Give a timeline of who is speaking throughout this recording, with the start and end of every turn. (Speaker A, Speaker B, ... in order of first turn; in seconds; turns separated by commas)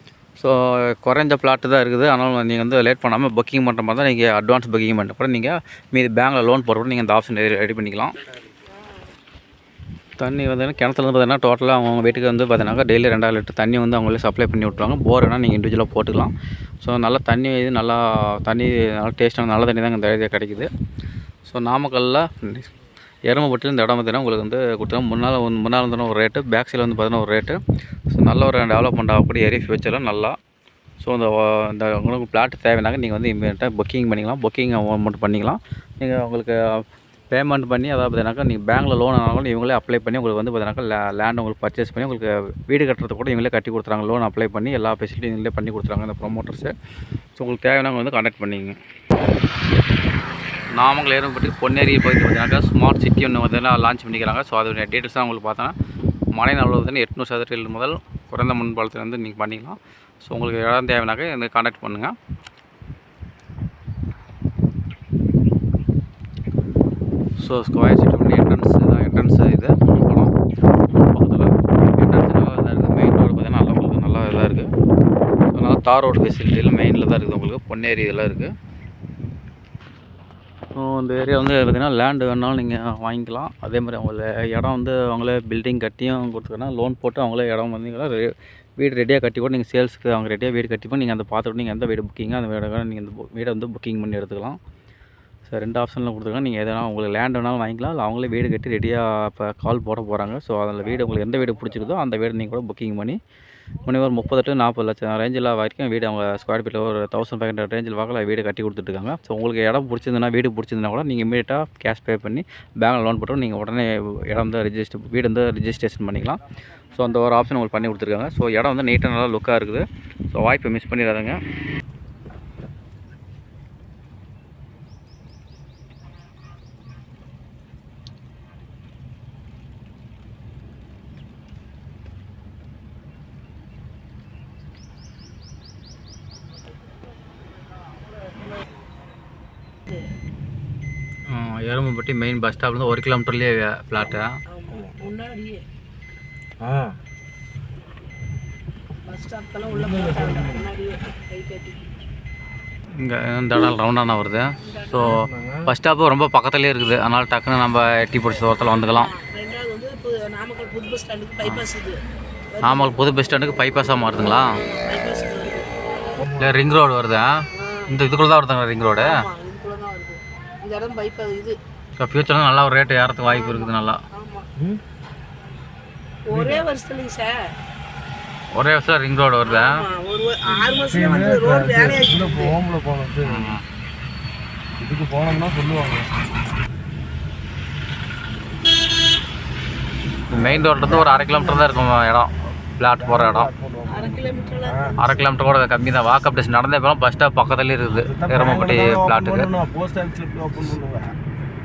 Speaker A: 0.4-8.1, Speaker A: 10.2-20.7, Speaker A: 21.5-22.7, Speaker A: 23.3-30.4, Speaker A: 31.0-46.7, Speaker A: 47.4-48.8, Speaker A: 50.7-55.7, Speaker A: 56.3-62.1, Speaker A: 67.4-74.7, Speaker A: 75.5-78.5, Speaker A: 80.7-94.6, Speaker A: 95.5-103.2, Speaker A: 103.8-116.4, Speaker A: 116.9-121.4, Speaker A: 141.3-144.4, Speaker B: 144.5-145.6, Speaker C: 146.6-146.9, Speaker B: 149.0-151.9, Speaker C: 149.8-150.4, Speaker A: 152.9-159.1, Speaker B: 154.6-155.2, Speaker B: 158.9-162.0, Speaker B: 162.5-163.0, Speaker A: 162.6-164.6, Speaker B: 164.4-165.7, Speaker A: 166.3-169.2, Speaker B: 167.5-167.9, Speaker B: 169.0-171.6, Speaker A: 172.0-174.0, Speaker B: 173.2-174.5, Speaker B: 176.2-177.5, Speaker A: 178.5-179.8, Speaker B: 179.4-182.6, Speaker C: 180.7-183.5, Speaker A: 183.2-183.6, Speaker C: 184.8-186.1, Speaker A: 190.3-193.5, Speaker C: 193.2-194.9, Speaker B: 193.8-195.4, Speaker A: 195.0-199.5, Speaker C: 198.1-201.1